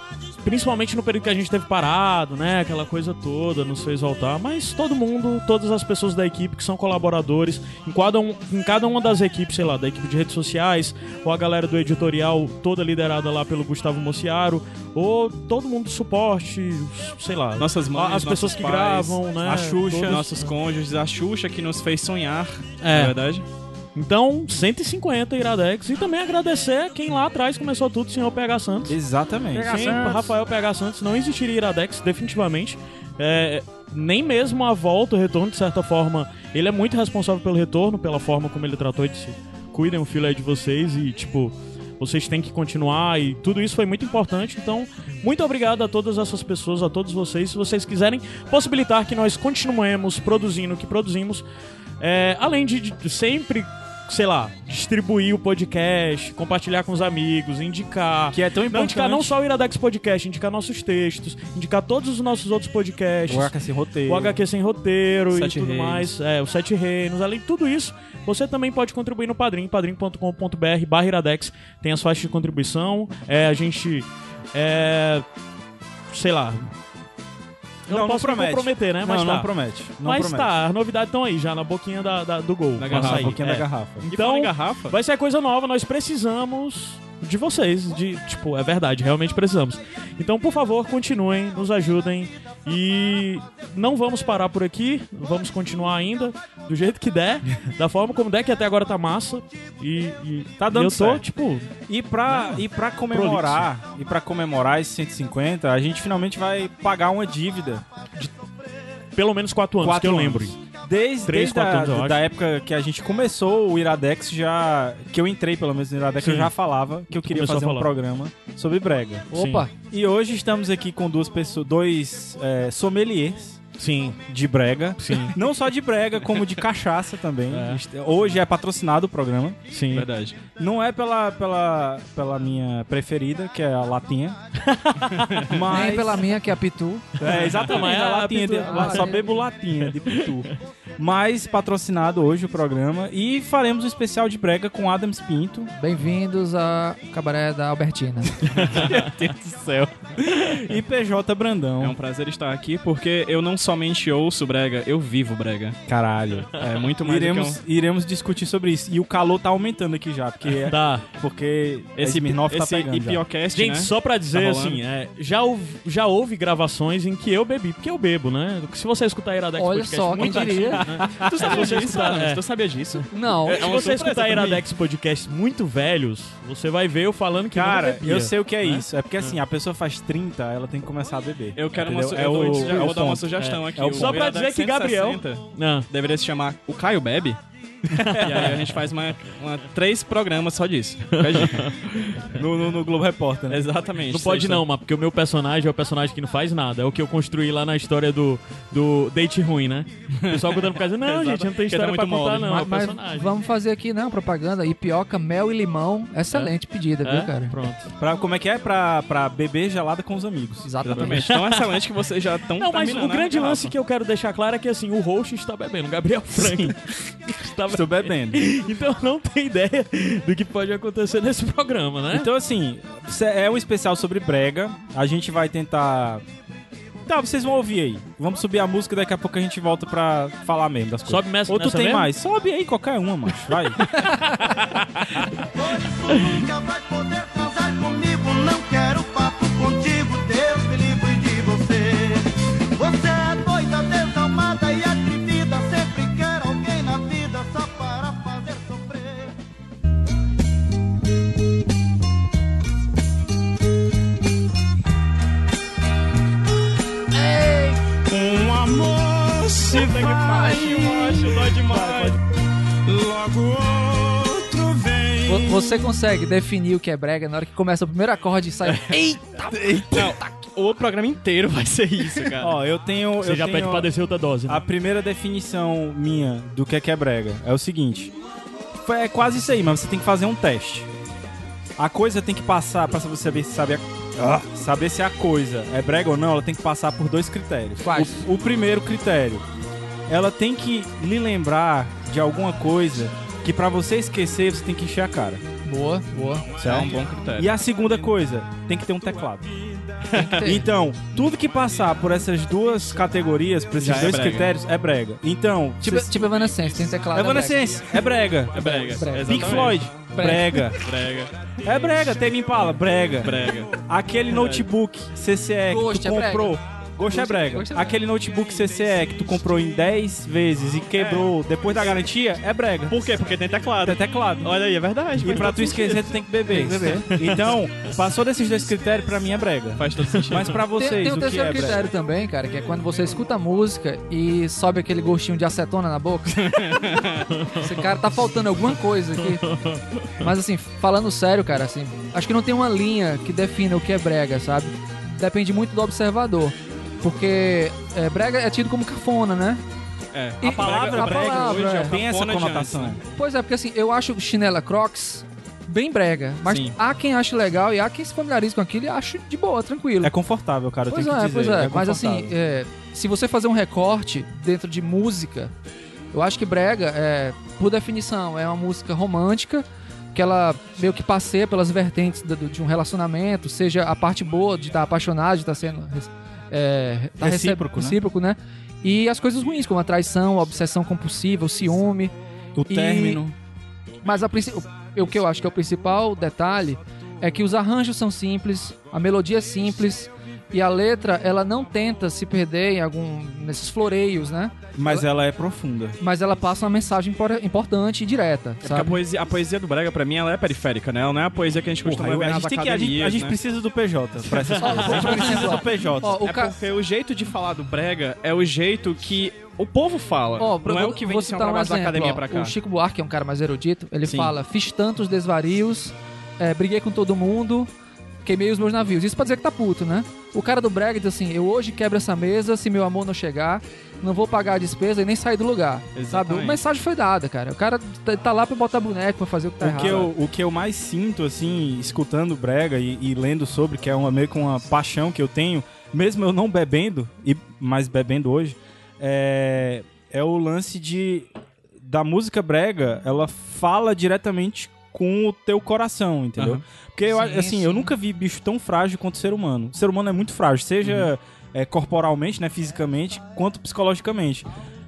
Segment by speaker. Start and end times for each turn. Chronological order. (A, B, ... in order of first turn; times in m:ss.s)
0:00.4-0:20.5 A
0:17.6-0:19.2 B
0:19.4-0:20.3 C
0:20.0-0:23.4 B
0:22.8-0:23.1 A
0:23.9-0:29.0 A
0:28.8-0:30.2 C
0:29.5-0:51.4 A
0:52.0-1:03.5 A
0:58.3-0:59.3 C
1:03.3-1:04.4 C
1:04.1-1:15.2 A
1:05.3-1:06.1 B
1:16.1-1:16.7 A
1:17.9-1:19.5 A
1:17.9-1:20.5 C
1:20.0-1:41.7 A
1:22.8-1:23.4 B
1:22.9-1:24.1 C
1:24.1-1:25.0 B
1:40.6-1:41.2 C
1:41.9-1:47.8 C
1:42.3-1:43.7 A
1:49.2-1:50.5 A
1:49.8-2:03.6 C
1:51.2-1:52.2 A
1:56.2-1:56.5 A
1:57.1-1:57.9 A
1:59.3-1:59.7 A
1:59.3-1:59.7 D
2:03.8-2:04.2 A
2:04.2-2:09.6 C
2:05.0-2:05.4 A
2:09.7-2:10.1 A
2:09.9-2:10.4 B
2:10.6-2:14.4 C
2:14.6-2:15.4 A
2:15.2-2:15.6 B
2:15.5-2:16.3 C
2:15.7-2:17.1 D
2:17.2-2:20.5 C
2:17.2-2:20.4 A
2:18.6-2:19.3 D
2:21.0-2:25.7 C
2:25.7-2:28.3 D
2:28.5-2:29.3 B
2:28.6-2:29.0 A
2:28.6-2:32.0 C
2:31.8-2:35.8 B
2:35.9-2:43.2 C
2:36.5-2:37.6 B
2:40.6-2:41.0 A
2:42.0-2:44.8 B
2:43.5-2:52.4 A
2:49.6-2:50.8 D
2:51.1-2:54.6 B
2:53.1-2:53.7 D
2:53.4-2:58.8 A
2:57.5-3:04.2 C
3:01.6-3:07.4 B
3:03.4-3:05.8 A
3:07.9-3:08.5 A
3:08.2-3:12.4 B
3:11.2-3:11.7 A
3:12.3-3:13.6 C
3:13.5-3:14.6 B
3:14.1-3:23.3 A
3:20.1-3:22.7 B
3:22.5-3:27.5 D
3:26.3-3:27.9 A
3:28.0-3:30.7 C
3:30.6-3:31.3 D
3:30.8-3:33.7 B
3:31.0-3:31.8 A
3:32.6-3:42.3 A
3:36.3-3:36.7 C
3:37.7-3:38.4 C
3:42.1-3:46.2 C
3:47.0-3:53.8 C
3:51.1-3:52.1 A
3:53.8-3:55.2 A
3:55.5-4:09.3 E
3:56.1-3:56.4 A
4:18.1-4:21.5 F
4:19.8-4:22.2 B
4:20.6-4:21.0 E
4:22.9-4:25.8 F
4:25.2-4:30.1 D
4:29.5-4:30.2 C
4:29.9-4:32.6 B
4:32.4-4:33.9 C
4:33.2-4:34.6 A
4:34.5-4:38.1 C
4:38.7-4:40.9 C
4:41.8-4:49.4 C
4:47.8-4:48.2 D
4:50.1-4:55.4 C
4:55.6-4:56.5 D
4:56.6-4:59.5 C
4:56.6-4:57.5 B
5:00.0-5:00.4 B
5:00.1-5:00.7 D
5:00.3-5:06.3 C
5:03.8-5:04.5 B
5:05.8-5:08.0 D
5:07.1-5:08.6 C
5:08.5-5:09.9 B
5:08.5-5:10.7 D
5:09.2-5:10.8 C
5:10.8-5:11.3 B
5:11.6-5:23.2 C
5:13.2-5:13.8 B
5:14.3-5:14.6 B
5:15.7-5:18.0 D
5:21.0-5:21.3 B
5:22.9-5:26.9 B
5:23.8-5:24.5 C
5:25.2-5:31.9 C
5:29.8-5:30.6 B
5:30.7-5:36.8 D
5:36.3-5:37.2 B
5:37.3-5:37.9 A
5:37.5-5:39.5 D
5:39.2-5:40.2 A
5:40.2-5:49.6 D
5:50.1-5:53.0 B
5:50.4-5:51.9 D
5:50.4-5:53.0 C
5:53.1-6:00.1 D
5:56.4-5:56.8 B
6:00.0-6:02.3 C
6:00.9-6:05.5 D
6:06.1-6:22.1 D
6:17.2-6:18.0 C
6:22.5-6:23.4 C
6:22.7-6:23.2 D
6:24.0-6:35.0 D
6:34.8-6:36.0 C
6:36.0-6:39.0 D
6:38.6-6:43.4 B
6:41.8-6:46.2 C
6:44.3-6:45.4 A
6:44.6-6:46.5 D
6:46.0-6:52.5 B
6:50.4-6:57.7 D
6:54.0-6:54.3 B
6:58.2-7:10.1 D
7:05.9-7:06.6 B
7:09.6-7:34.5 C
7:26.4-7:26.6 B
7:27.1-7:27.9 D
7:30.8-7:31.1 B